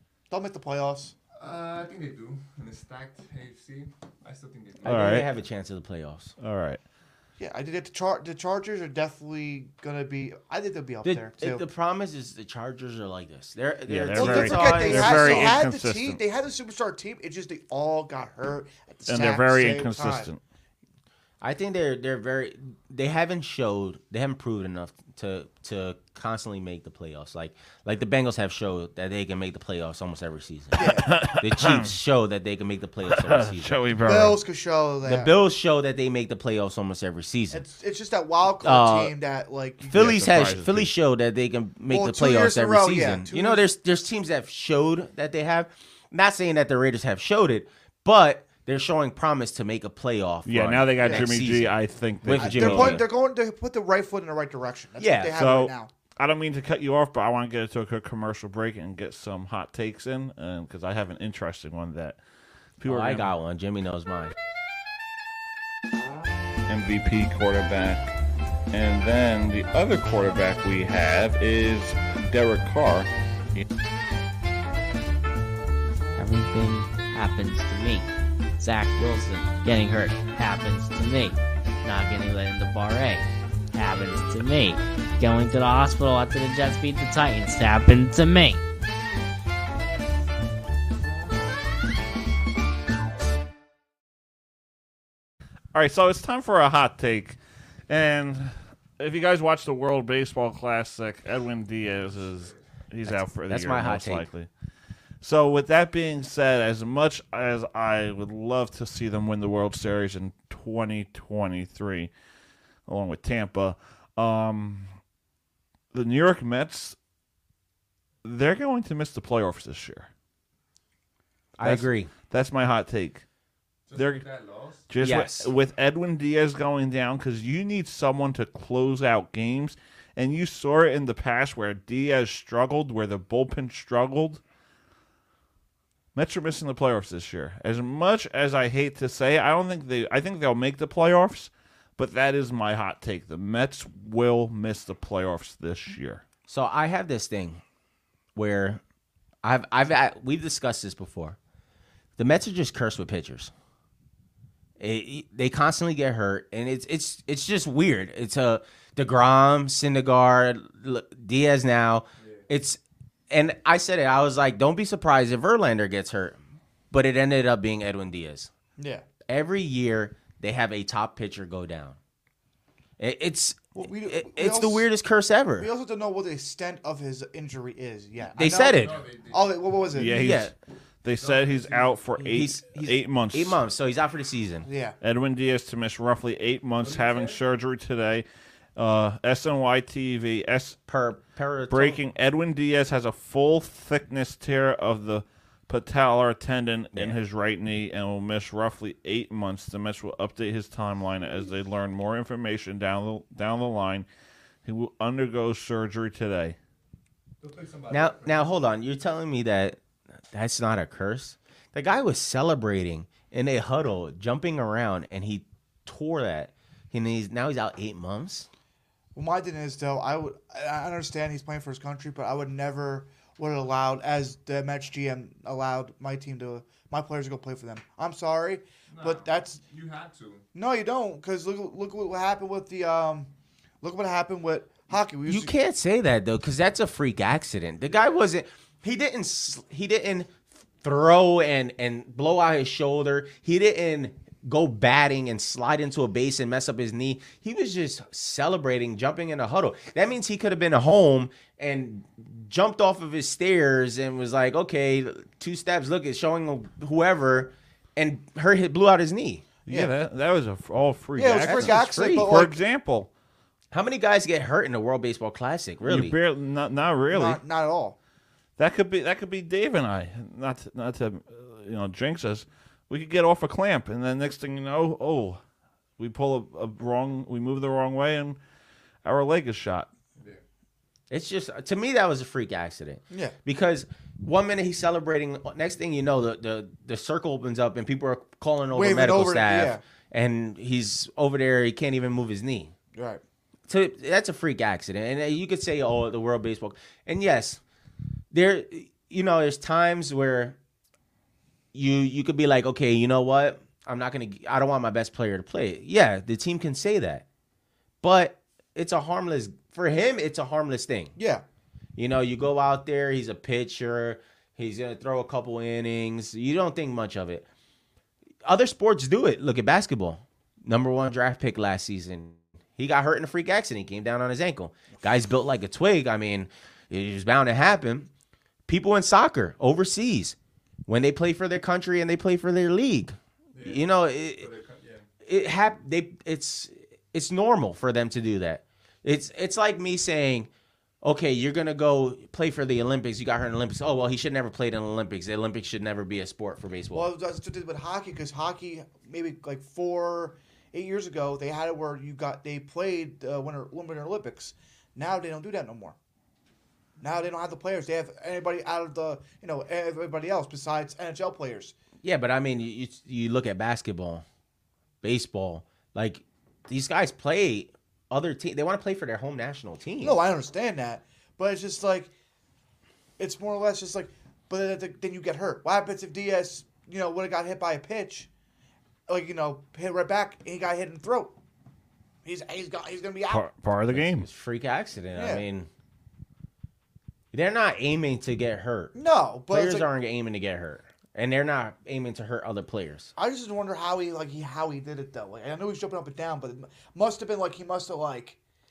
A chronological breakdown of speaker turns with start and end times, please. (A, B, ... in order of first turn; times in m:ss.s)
0:00.3-0:01.2 A
0:01.4-0:05.2 B
0:04.8-0:06.4 C
0:04.8-0:05.3 D
0:06.4-0:06.8 D
0:07.4-0:11.6 A
0:11.0-0:15.6 C
0:13.9-0:16.2 D
0:14.1-0:20.3 A
0:19.1-0:20.4 D
0:21.4-0:33.8 C
0:30.8-0:31.2 A
0:30.8-0:31.9 D
0:33.1-0:34.4 D
0:34.0-0:35.4 A
0:35.0-0:37.6 C
0:37.5-0:40.1 A
0:38.6-0:39.2 C
0:39.9-0:40.9 D
0:39.9-0:53.1 C
0:41.9-0:43.7 A
0:50.4-0:53.1 D
0:51.0-0:51.3 A
0:52.3-0:55.9 A
0:55.0-0:55.4 C
0:55.4-1:02.2 D
1:02.8-1:03.3 D
1:02.8-1:04.3 C
1:06.7-1:08.1 D
1:08.7-1:13.6 D
1:16.2-1:28.6 E
1:35.7-1:37.4 D
1:37.9-1:44.5 D
1:42.1-1:42.6 B
1:43.0-1:44.3 C
1:45.2-1:52.1 D
1:52.9-1:54.9 D
1:55.9-1:57.0 D
1:58.2-2:00.1 D
2:01.6-2:02.1 C
2:01.6-2:03.2 D
2:03.9-2:04.9 B
2:04.0-2:04.2 D
2:04.9-2:14.4 D
2:05.0-2:05.5 C
2:16.2-2:26.2 D
2:26.5-2:27.6 C
2:28.4-2:28.8 C
2:29.4-2:31.4 C
2:32.2-2:33.5 C
2:34.8-2:46.4 C
2:42.2-2:42.4 B
2:46.9-2:48.5 C
2:48.8-2:49.0 A
2:49.3-2:52.0 C
2:53.0-2:55.7 C
2:53.8-2:54.9 A
2:55.6-3:00.1 A
2:58.3-2:59.0 C
2:58.5-2:59.9 B
2:59.9-3:03.6 D
3:00.0-3:00.5 C
3:01.1-3:02.1 B
3:02.2-3:04.7 C
3:04.6-3:05.0 A
3:05.0-3:08.2 D
3:06.8-3:07.4 B
3:08.8-3:10.8 D
3:10.9-3:12.0 C
3:11.7-3:24.1 D
3:24.6-3:26.6 D
3:27.4-3:28.6 B
3:27.9-3:29.8 C
3:30.3-3:38.5 C
3:39.2-3:49.6 A
3:48.9-3:50.4 B
3:50.6-3:53.3 A
3:53.8-3:55.5 A
3:55.3-4:19.4 C
3:57.9-3:58.2 B
4:19.7-4:23.1 D
4:19.7-4:19.9 A
4:21.2-4:22.6 A
4:21.4-4:22.3 C
4:23.7-4:26.2 C
4:25.8-4:27.4 D
4:27.1-4:28.0 A
4:28.6-4:35.4 D
4:36.0-4:38.4 D
4:39.0-4:39.9 D
4:40.2-4:40.4 B
4:41.1-4:52.7 C
4:48.7-4:49.8 A
4:53.0-4:53.2 A
4:53.7-4:57.6 C
4:58.3-5:00.6 C
5:01.7-5:07.2 C
5:08.0-5:11.1 C
5:11.2-5:11.4 A
5:12.0-5:17.5 C
5:18.4-5:28.1 C
5:28.7-5:30.4 C
5:30.9-5:34.5 C
5:33.5-5:35.1 B
5:35.2-5:40.5 C
5:41.0-5:47.1 C
5:46.9-5:56.0 A
5:57.0-6:01.7 A
6:02.0-6:04.2 C
6:05.0-6:10.2 C
6:10.0-6:12.1 A
6:13.2-6:18.3 A
6:19.1-6:21.3 A
6:22.2-6:23.5 A
6:23.3-6:24.3 D
6:23.9-6:25.7 C
6:25.1-6:25.4 A
6:27.3-6:28.9 C
6:28.9-6:29.9 A
6:29.5-6:33.1 C
6:33.2-6:38.4 A